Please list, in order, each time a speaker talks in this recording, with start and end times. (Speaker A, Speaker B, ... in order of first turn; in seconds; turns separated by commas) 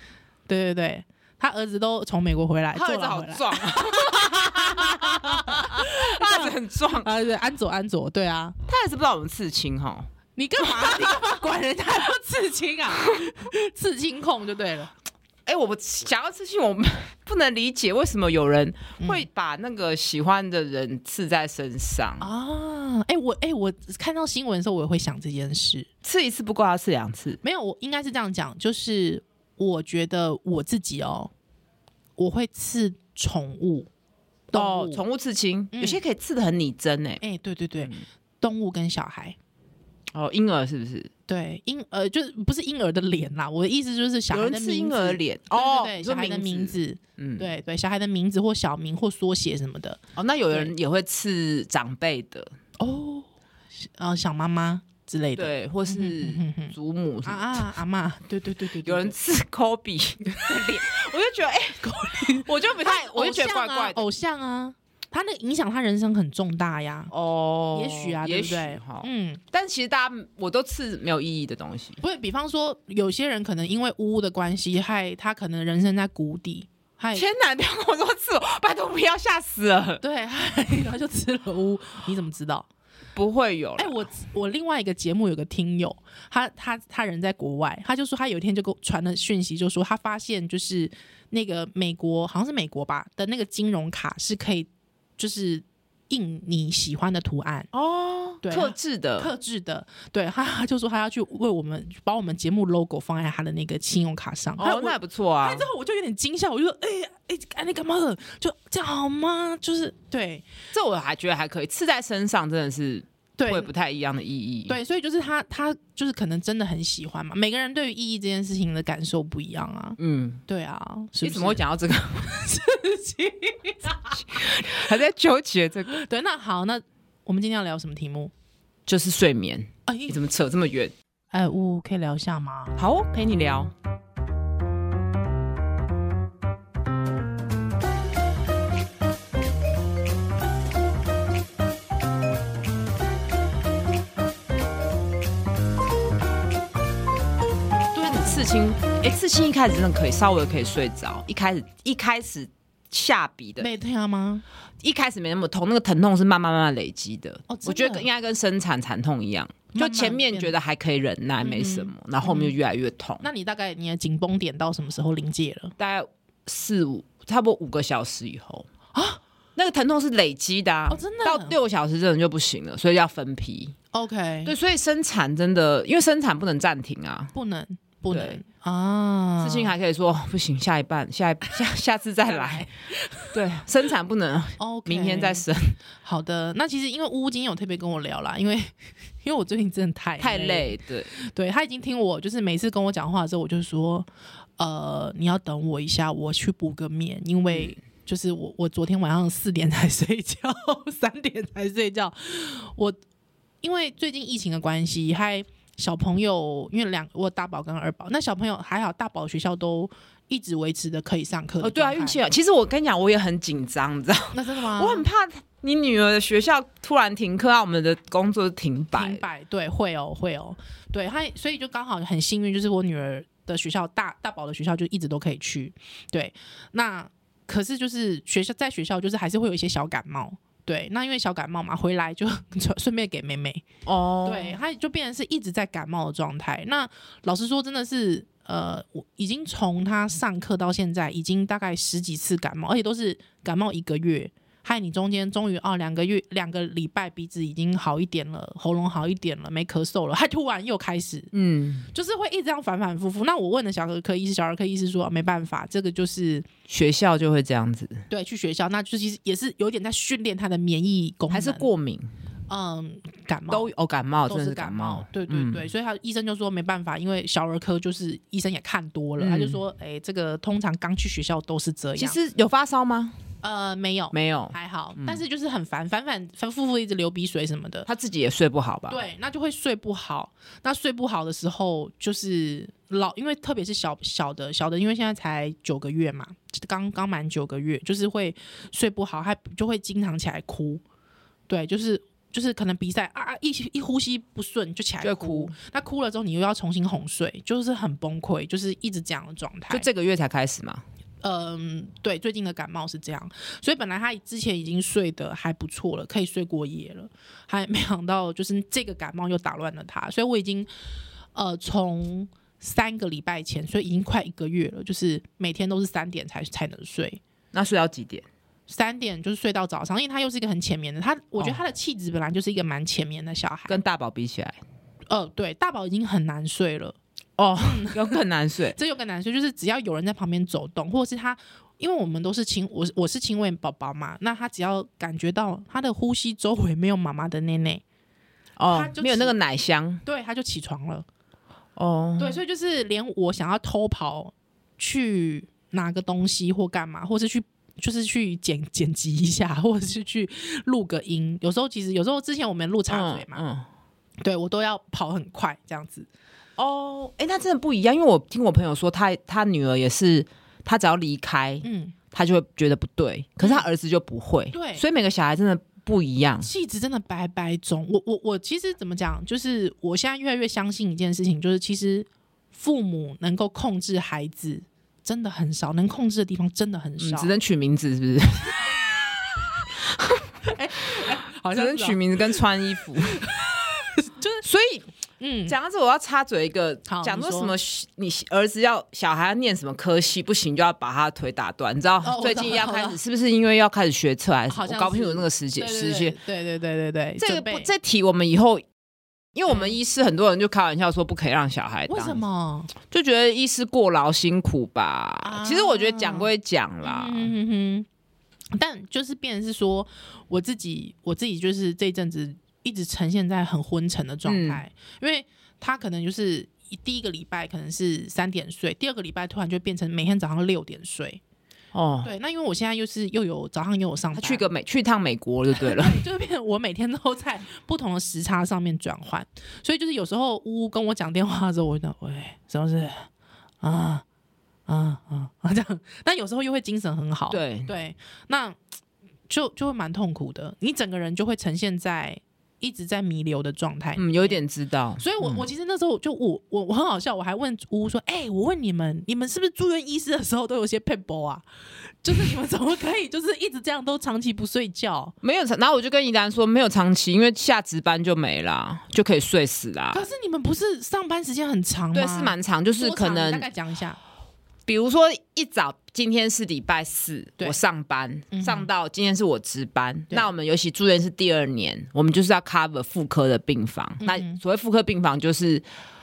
Speaker A: 0.5-8.6, Speaker B: 2.7-7.1, Speaker B: 8.7-10.1, Speaker A: 10.3-14.9, Speaker B: 10.6-10.9, Speaker B: 15.4-22.3, Speaker A: 19.0-19.2, Speaker A: 22.2-25.9, Speaker B: 26.0-27.4, Speaker A: 27.4-31.3, Speaker A: 32.2-33.9, Speaker A: 34.5-35.0, Speaker B: 34.5-37.2, Speaker A: 35.7-36.0, Speaker A: 37.2-39.4, Speaker B: 37.8-38.0, Speaker B: 40.1-41.1, Speaker A: 41.3-50.0, Speaker B: 44.3-47.5, Speaker B: 50.1-52.5, Speaker A: 52.8-53.3, Speaker A: 53.8-59.1, Speaker B: 55.4-57.7, Speaker B: 58.8-64.0, Speaker A: 60.4-61.1, Speaker A: 61.8-67.1, Speaker B: 67.1-72.0, Speaker A: 67.7-69.4, Speaker A: 72.0-77.2, Speaker B: 77.1-80.0, Speaker A: 80.0-82.7, Speaker B: 83.1-84.0, Speaker A: 83.8-97.7, Speaker B: 97.7-99.3, Speaker A: 98.4-110.5, Speaker B: 104.6-105.7, Speaker B: 110.7-114.8, Speaker A: 113.4-113.7, Speaker A: 114.7-121.6, Speaker B: 120.0-120.4, Speaker B: 121.2-122.4, Speaker A: 122.2-124.9, Speaker B: 124.1-126.0, Speaker A: 125.9-128.3, Speaker B: 128.9-130.9, Speaker A: 129.9-130.2, Speaker A: 131.3-132.8, Speaker B: 132.8-133.7, Speaker A: 147.9-148.5, Speaker B: 148.0-153.7, Speaker A: 153.6-154.4, Speaker B: 154.8-163.3, Speaker A: 157.5-158.1, Speaker A: 159.7-160.5, Speaker A: 161.4-162.6, Speaker A: 163.2-165.7, Speaker B: 165.8-168.7, Speaker A: 168.9-169.2, Speaker B: 169.6-173.8, Speaker A: 170.9-171.6, Speaker A: 173.9-174.5, Speaker B: 174.4-177.3, Speaker A: 177.3-179.7, Speaker B: 178.1-178.4, Speaker B: 179.4-182.7, Speaker A: 182.2-183.3, Speaker B: 183.3-185.8, Speaker A: 184.6-185.4, Speaker A: 186.0-203.0, Speaker B: 190.2-191.1, Speaker A: 203.6-212.2, Speaker B: 211.6-219.2, Speaker A: 214.3-215.1, Speaker A: 218.9-233.7, Speaker B: 233.8-234.6, Speaker A: 234.2-251.3, Speaker B: 251.3-251.9, Speaker A: 251.9-256.5, Speaker B: 256.7-258.0, Speaker A: 258.1-261.7, Speaker B: 261.3-262.1, Speaker A: 262.5-263.7, Speaker B: 263.5-265.7, Speaker A: 264.3-272.2, Speaker B: 269.2-269.6, Speaker B: 272.0-273.2, Speaker A: 273.4-277.9, Speaker B: 274.1-275.2, Speaker B: 277.9-279.0, Speaker A: 278.9-290.8, Speaker A: 291.5-299.9, Speaker B: 295.0-295.5, Speaker B: 299.7-300.8, Speaker A: 301.2-310.7, Speaker A: 311.3-317.2, Speaker B: 317.5-318.2, Speaker A: 318.7-323.8, Speaker B: 323.7-324.6, Speaker A: 325.1-326.9, Speaker B: 327.4-328.8, Speaker A: 327.6-328.2, Speaker A: 328.7-337.8, Speaker B: 338.6-340.0, Speaker A: 338.7-339.4, Speaker A: 340.0-341.1, Speaker B: 341.8-342.4, Speaker A: 342.2-353.4, Speaker B: 352.9-353.7, Speaker A: 354.2-356.1, Speaker B: 356.6-366.5, Speaker A: 361.6-361.9, Speaker A: 363.4-363.6, Speaker A: 364.5-364.8, Speaker A: 366.4-377.3, Speaker B: 377.0-378.6, Speaker B: 379.7-383.2, Speaker A: 380.5-382.4, Speaker A: 383.1-384.4, Speaker B: 384.4-384.9, Speaker A: 385.2-385.6, Speaker B: 385.5-396.1, Speaker A: 386.9-387.5, Speaker A: 392.0-393.0, Speaker A: 394.5-397.7, Speaker B: 397.2-398.6, Speaker B: 399.3-402.2, Speaker A: 399.5-399.8, Speaker A: 401.9-402.7, Speaker B: 402.8-407.3, Speaker A: 405.2-406.3, Speaker A: 406.8-407.9, Speaker A: 408.5-421.2, Speaker B: 414.2-414.6, Speaker B: 421.7-422.1, Speaker A: 422.0-424.4, Speaker B: 424.1-426.0, Speaker A: 425.5-433.1, Speaker A: 433.6-434.0, Speaker A: 434.7-438.6, Speaker B: 437.3-437.7, Speaker A: 439.3-444.4, Speaker B: 443.9-445.4, Speaker A: 445.0-451.4, Speaker A: 452.0-455.1, Speaker B: 455.2-460.0, Speaker A: 459.9-464.0, Speaker B: 461.9-463.5, Speaker B: 464.6-475.6, Speaker A: 468.3-468.7, Speaker A: 474.0-474.4